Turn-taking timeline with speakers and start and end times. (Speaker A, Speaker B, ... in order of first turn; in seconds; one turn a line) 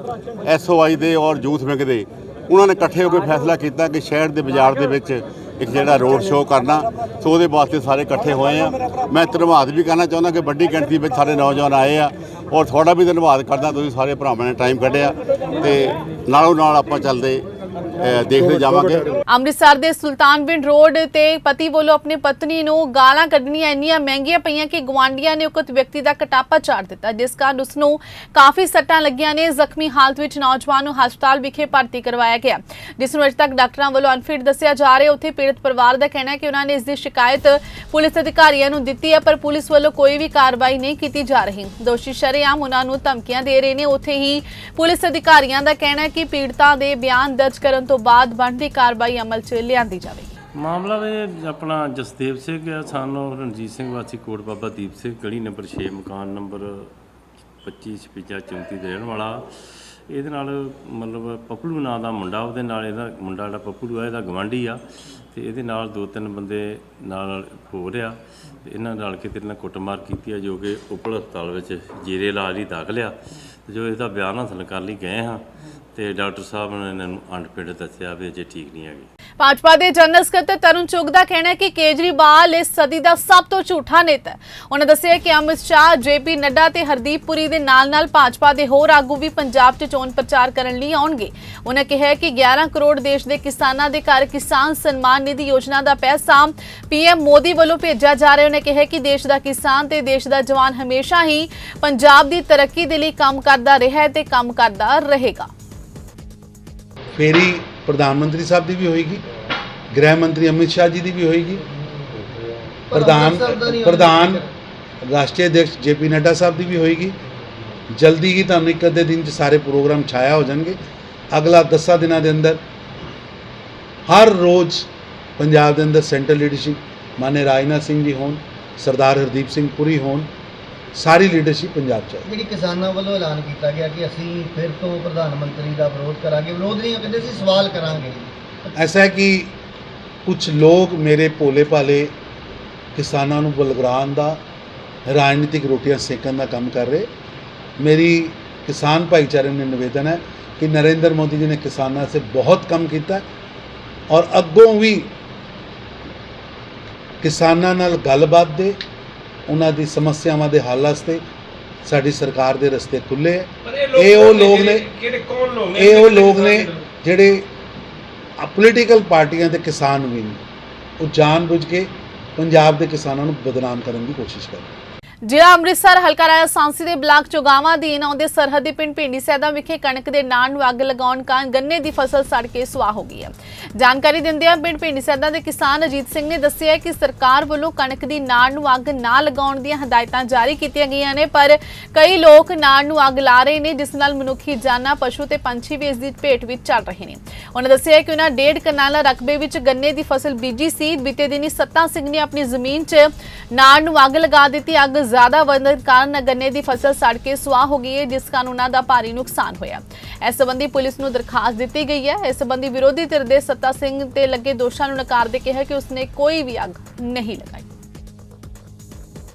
Speaker A: 0.4-17.4
Speaker A: 18.0-19.1
Speaker B: 19.3-50.3
Speaker C: 50.6-56.9
Speaker C: 57.6-59.4
Speaker C: 60.1-64.8
Speaker C: 65.3-68.1
Speaker C: 68.6-73.1
Speaker C: 73.7-75.4
Speaker C: 75.9-79.1
Speaker B: 79.4-105.5
Speaker D: 107.1-109.2
Speaker D: 109.9-111.6
Speaker E: 112.9-114.4
Speaker D: 112.9-114.4
Speaker D: 115.0-117.2
Speaker D: 117.9-120.8
Speaker D: 121.3-122.6
Speaker D: 124.1-130.3
Speaker D: 130.9-132.2
Speaker E: 132.3-138.3
Speaker D: 138.8-139.5
Speaker D: 140.2-142.1
Speaker D: 142.9-144.4
Speaker D: 145.1-147.1
Speaker D: 147.8-153.2
Speaker D: 154.1-155.1
Speaker D: 157.2-158.8
Speaker D: 159.5-161.2
Speaker D: 161.8-164.9
Speaker F: 163.7-166.8
Speaker D: 165.7-167.5
Speaker D: 168.4-170.4
Speaker D: 171.0-174.7
Speaker B: 175.2-217.7